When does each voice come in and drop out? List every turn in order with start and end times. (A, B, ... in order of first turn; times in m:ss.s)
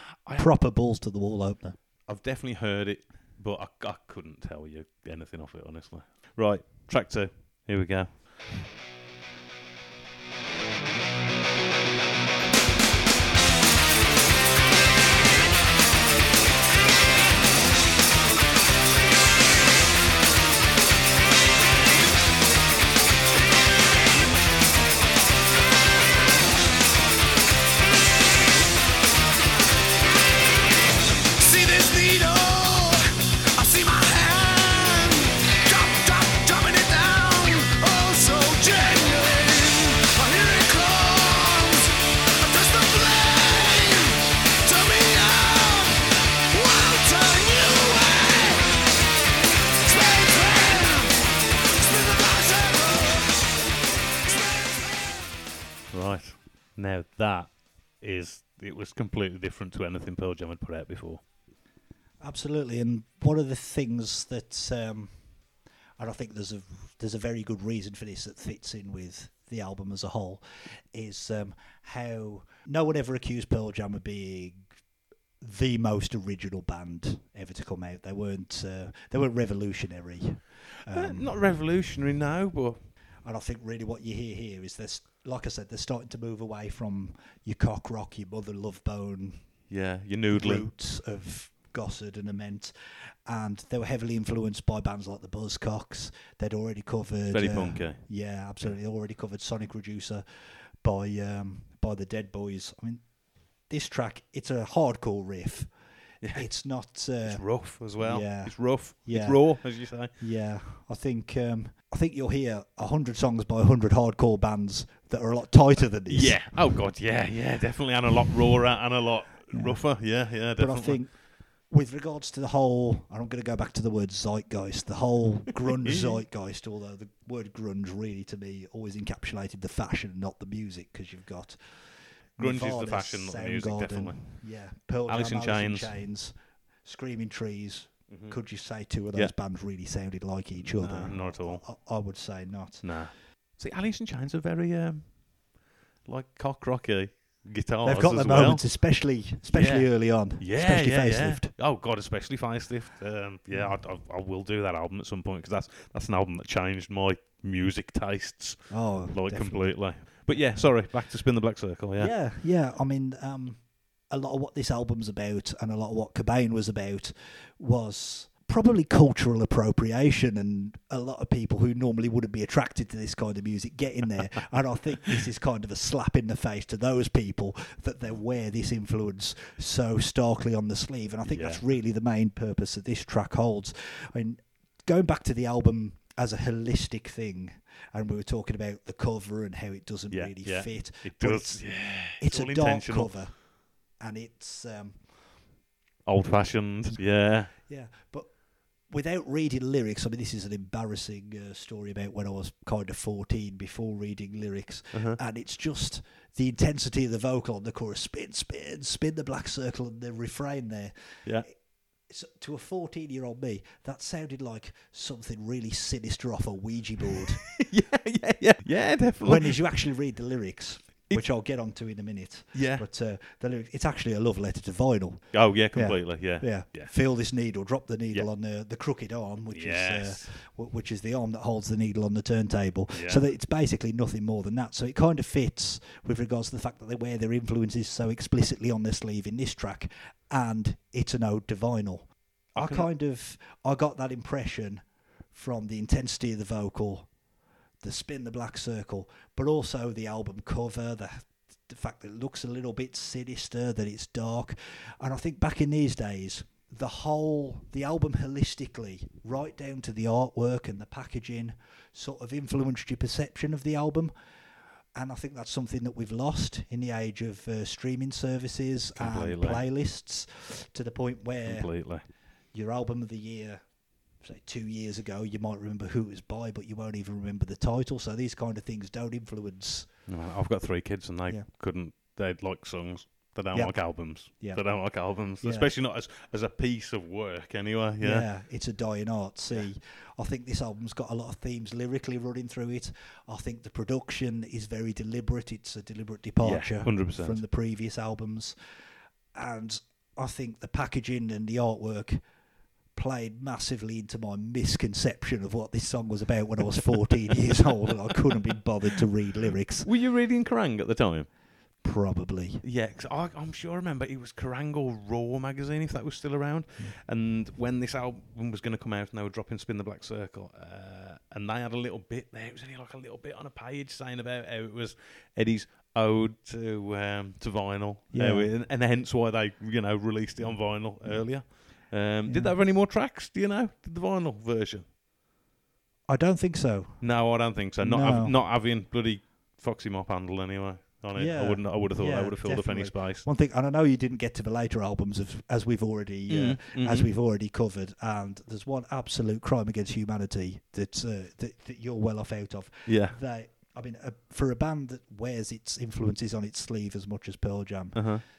0:00.4-0:01.8 A
0:02.0-0:08.2 B
0:31.3-0:48.8 C
0:49.8-0:53.6 C
0:54.3-0:55.0 C
0:55.9-1:01.2 B
1:02.2-1:05.2 A
1:06.0-1:14.7 A
1:15.4-1:21.3 A
1:20.9-1:22.8 B
1:23.2-1:29.7 A
1:29.7-1:30.7 B
1:30.3-1:32.7 A
1:33.2-1:43.0 A
1:37.3-1:38.0 B
1:43.6-1:45.7 A
1:46.2-1:46.5 B
1:46.3-1:56.6 A
1:47.2-1:50.1 B
1:56.1-2:01.0 B
1:59.5-2:22.9 A
2:05.7-2:06.2 B
2:12.4-2:14.3 B
2:15.1-2:16.0 B
2:18.1-2:18.4 B
2:20.7-2:21.6 B
2:22.8-2:25.4 B
2:26.0-2:28.8 B
2:27.8-2:31.5 A
2:29.5-2:42.1 B
2:33.5-2:33.8 A
2:38.7-2:40.7 A
2:42.0-3:15.0 A
3:01.3-3:01.6 B
3:10.1-3:13.2 B
3:16.0-3:17.5 B
3:16.9-3:37.6 A
3:24.9-3:25.2 B
3:37.6-3:39.6 B
3:39.2-4:07.1 A
3:42.5-3:42.8 B
3:45.3-3:46.9 B
3:49.5-3:50.3 B
3:52.9-3:53.2 B
4:02.5-4:02.9 B
4:07.8-4:24.1 A
4:24.9-4:33.6 A
4:29.0-4:29.6 B
4:31.4-4:32.1 B
4:34.2-4:40.0 A
4:40.1-4:48.3 B
4:43.5-4:45.7 A
4:48.0-4:58.6 A
4:56.4-4:57.4 B
4:59.3-5:02.2 A
5:02.9-5:09.9 A
5:09.8-5:11.3 B
5:11.8-5:12.6 A
5:12.6-5:34.9 B
5:28.1-5:28.5 A
5:30.4-5:32.6 A
5:36.1-5:38.4 A
5:37.0-5:43.2 B
5:41.1-5:58.2 A
5:46.3-5:47.1 B
5:52.8-5:53.2 B
5:57.9-5:58.2 B